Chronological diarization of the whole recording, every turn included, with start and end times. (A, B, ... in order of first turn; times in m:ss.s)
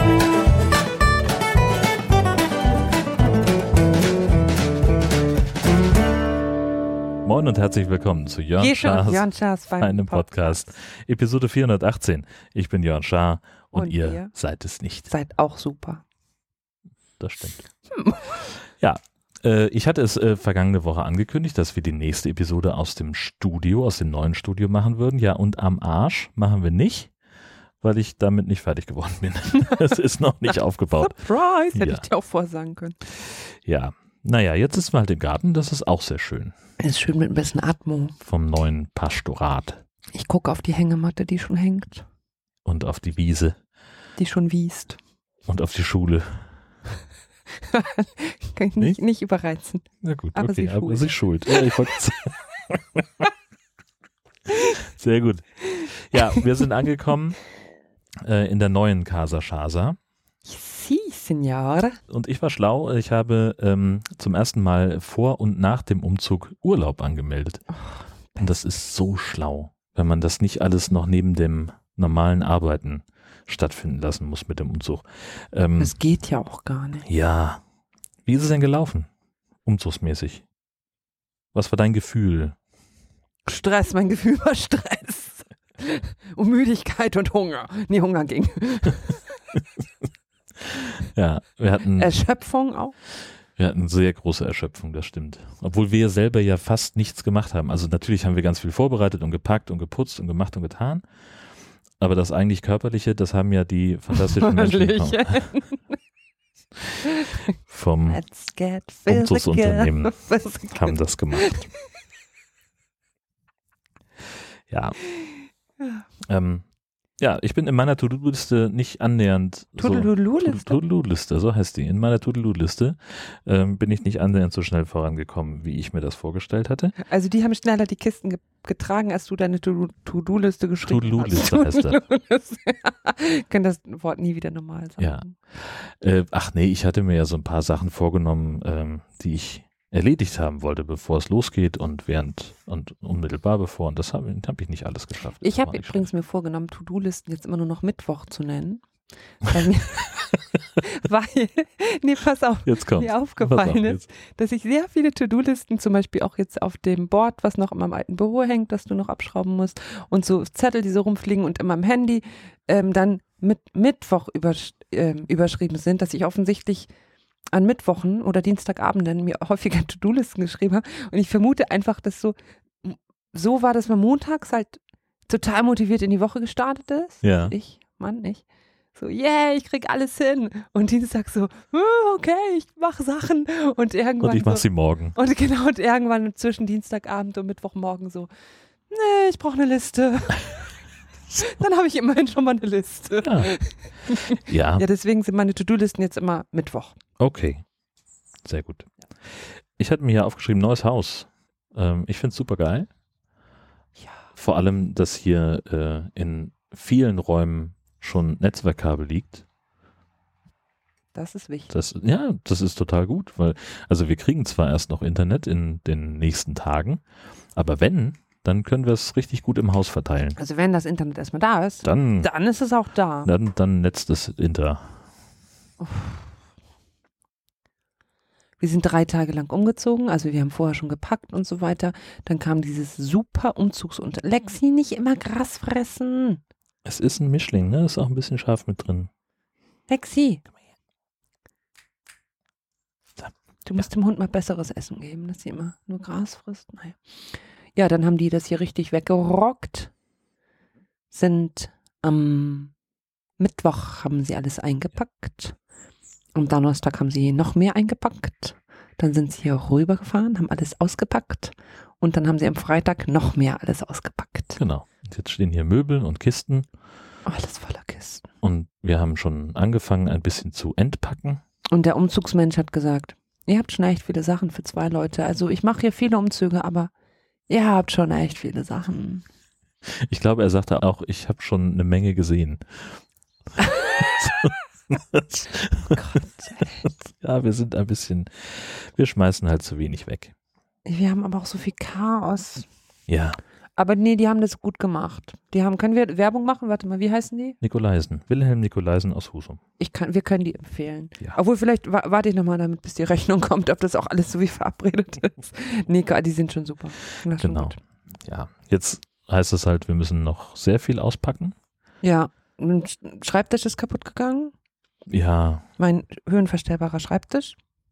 0:07.2-0:09.3 A
0:08.6-0:10.6 B
0:09.8-0:15.1 A
0:13.7-0:14.3 B
0:15.1-0:16.0 B
0:17.2-0:17.6 A
0:17.9-0:18.4 B
0:18.8-0:27.1 A
0:27.8-0:31.2 A
0:30.9-0:33.0 B
0:31.7-0:32.0 A
0:33.3-0:36.5 A
0:36.8-0:38.2 B
0:38.2-0:39.8 A
0:40.1-0:42.1 B
0:42.6-0:43.6 A
0:44.2-0:45.0 B
0:45.5-0:46.5 A
0:47.6-0:51.1 B
0:50.0-0:53.2 A
0:54.5-0:57.4 A
0:55.7-0:56.5 B
0:58.2-1:00.0 A
1:00.4-1:02.0 B
1:02.1-1:07.6 A
1:07.7-1:08.5 B
1:08.4-1:16.0 A
1:15.8-1:17.1 B
1:17.1-1:17.6 A
1:18.3-1:19.1 A
1:19.6-1:20.4 A
1:21.5-1:22.6 A
1:23.4-1:29.4 B
1:30.7-1:32.2 A
1:32.0-1:33.0 B
1:33.6-1:41.0 A
1:42.0-1:45.4 A
1:44.1-1:46.0 B
1:47.0-1:47.4 B
1:47.6-1:48.2 A
1:48.1-1:51.8 B
1:49.1-1:50.2 A
1:50.7-1:51.6 A
1:54.7-1:55.0 A
1:56.3-1:56.6 A
1:57.2-2:07.0 A
1:59.8-2:00.8 B
2:07.0-2:15.3 B
2:10.8-2:12.0 A
2:15.0-2:26.1 A
2:25.4-2:28.8 B
2:29.4-2:46.9 B
2:32.6-2:34.0 A
2:47.5-2:58.4 B
2:57.2-2:57.6 A
2:59.0-3:08.3 B
3:04.2-3:05.2 A
3:08.9-3:10.7 B
3:11.3-3:17.0 B
3:13.2-3:13.5 A
3:14.4-3:14.8 A
3:17.2-3:17.6 A
3:18.5-3:22.9 A
3:24.0-3:24.2 B
3:24.4-3:29.4 A
3:31.1-3:31.7 B
3:31.7-3:37.0 A
3:37.6-3:40.4 A
3:40.4-3:43.3 B
3:41.8-3:42.3 A
3:43.2-3:44.9 A
3:45.8-3:46.2 B
3:48.6-3:56.4 B
3:56.8-3:59.1 A
3:59.9-4:00.4 B
4:03.7-4:07.0 B
4:07.8-4:09.9 B
4:11.1-4:12.7 B
4:13.4-4:15.6 B
4:16.4-4:24.6 B
4:24.6-4:26.7 A
4:27.3-4:28.2 B
4:28.4-4:31.4 A
4:31.7-4:36.9 B
4:37.5-4:39.2 B
4:40.0-4:42.8 A
4:43.6-4:46.0 A
4:45.9-4:46.9 B
4:46.8-4:50.3 A
4:50.8-4:52.6 B
4:53.1-4:53.4 A
4:53.8-4:57.6 B
4:57.6-4:59.6 A
4:59.8-5:07.8 B
5:07.4-5:07.7 A
5:08.3-5:11.5 A
5:12.0-5:14.5 B
5:15.1-5:15.6 A
5:15.8-5:17.6 B